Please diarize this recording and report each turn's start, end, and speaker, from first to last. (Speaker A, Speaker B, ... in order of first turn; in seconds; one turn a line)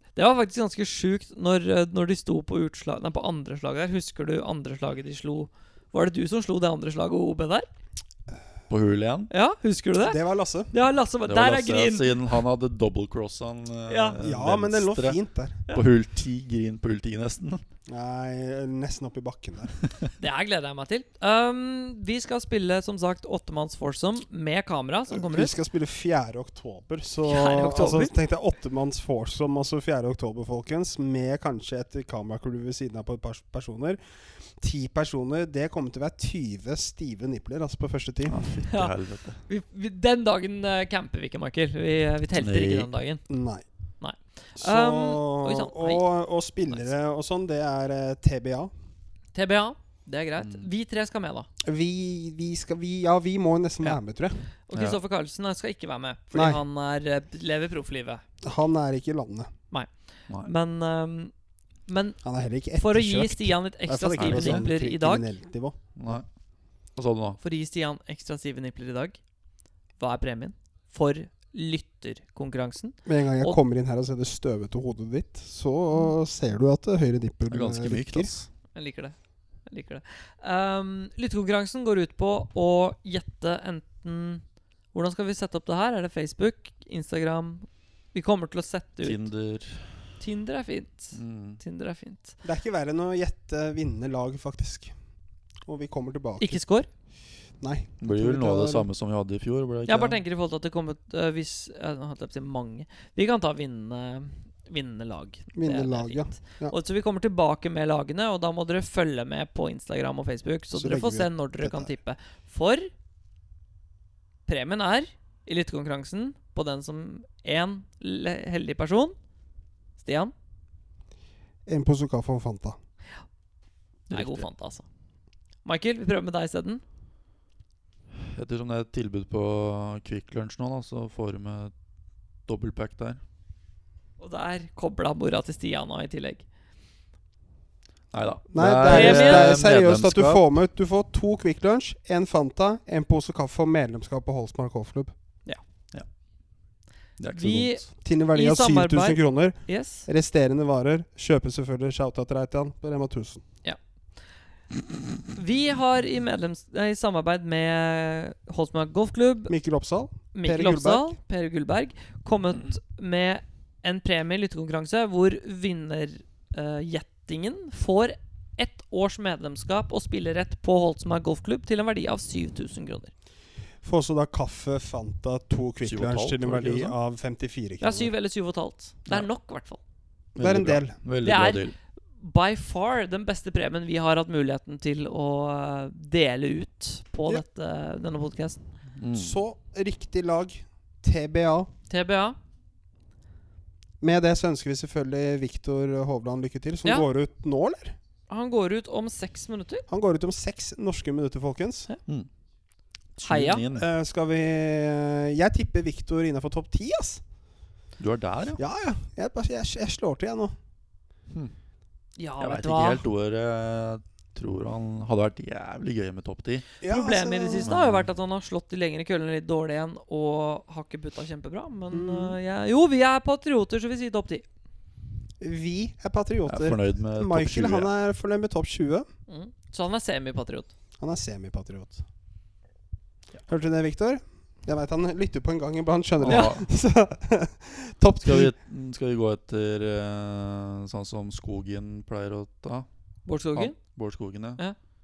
Speaker A: 0.1-7.7
Speaker B: 8.7-9.3
Speaker A: 9.3-10.2
Speaker C: 10.0-10.7
Speaker A: 10.7-12.4
Speaker B: 11.2-15.2
Speaker A: 13.9-14.2
Speaker C: 14.2-15.6
Speaker B: 15.7-17.6
Speaker C: 17.9-19.7
Speaker A: 20.2-25.5
Speaker C: 25.1-34.0
Speaker A: 27.2-28.1
Speaker C: 34.6-38.5
Speaker B: 38.3-39.4
Speaker A: 39.5-43.2
Speaker B: 42.3-42.9
Speaker C: 43.3-43.6
Speaker A: 44.0-46.0
Speaker C: 44.6-48.7
Speaker A: 49.3-51.5
Speaker B: 50.4-50.7
Speaker C: 51.6-54.5
Speaker A: 54.7-58.2
Speaker C: 56.3-56.6
Speaker C: 58.4-59.5
Speaker A: 59.7-61.3
Speaker A: 61.9-62.2
Speaker C: 62.2-65.8
Speaker A: 62.8-65.3
Speaker B: 64.2-64.7
Speaker B: 66.0-66.2
Speaker B: 67.0-67.4
Speaker A: 67.4-69.2
Speaker A: 70.0-73.6
Speaker C: 73.0-78.3
Speaker B: 77.5-78.5
Speaker A: 78.7-79.1
Speaker A: 79.7-84.4
Speaker A: 84.9-89.2
Speaker B: 89.0-90.1
Speaker A: 90.2-92.3
Speaker B: 91.1-91.6
Speaker C: 92.4-94.9
Speaker C: 95.7-96.6
Speaker A: 96.4-96.9
Speaker C: 97.6-98.9
Speaker B: 98.0-100.2
Speaker A: 99.8-112.9
Speaker C: 105.5-106.7
Speaker C: 110.7-112.0
Speaker A: 114.5-119.2
Speaker A: 120.0-120.3
Speaker C: 121.7-122.8
Speaker B: 124.1-124.4
Speaker A: 124.1-124.8
Speaker A: 125.6-126.8
Speaker B: 128.2-131.7
Speaker B: 132.5-133.2
Speaker A: 134.2-136.4
Speaker B: 138.1-140.4
Speaker C: 138.5-145.1
Speaker A: 138.9-139.6
Speaker B: 147.2-147.8
Speaker A: 147.3-150.1
Speaker C: 148.0-153.4
Speaker A: 155.3-159.5
Speaker C: 159.5-161.2
Speaker A: 160.3-173.1
Speaker C: 173.8-178.1
Speaker B: 175.8-176.9
Speaker A: 177.8-179.8
Speaker C: 180.3-181.0
Speaker B: 180.4-181.7
Speaker A: 181.2-188.6
Speaker B: 189.0-189.4
Speaker C: 189.1-191.7
Speaker A: 191.9-192.4
Speaker C: 194.0-198.0
Speaker A: 198.3-199.8
Speaker C: 199.9-201.9
Speaker B: 203.2-203.9
Speaker A: 203.2-203.6
Speaker C: 203.7-207.2
Speaker B: 208.0-208.6
Speaker C: 208.6-210.5
Speaker A: 212.2-213.0
Speaker B: 212.4-216.7
Speaker C: 216.8-217.7
Speaker A: 216.8-224.4
Speaker B: 217.6-218.1
Speaker C: 221.9-222.4
Speaker C: 225.4-229.1
Speaker B: 226.5-227.9
Speaker A: 229.3-230.7
Speaker C: 231.0-232.0
Speaker C: 233.5-238.5
Speaker B: 236.2-236.6
Speaker A: 236.3-236.6
Speaker B: 238.2-242.9
Speaker A: 243.2-243.8
Speaker B: 243.5-244.6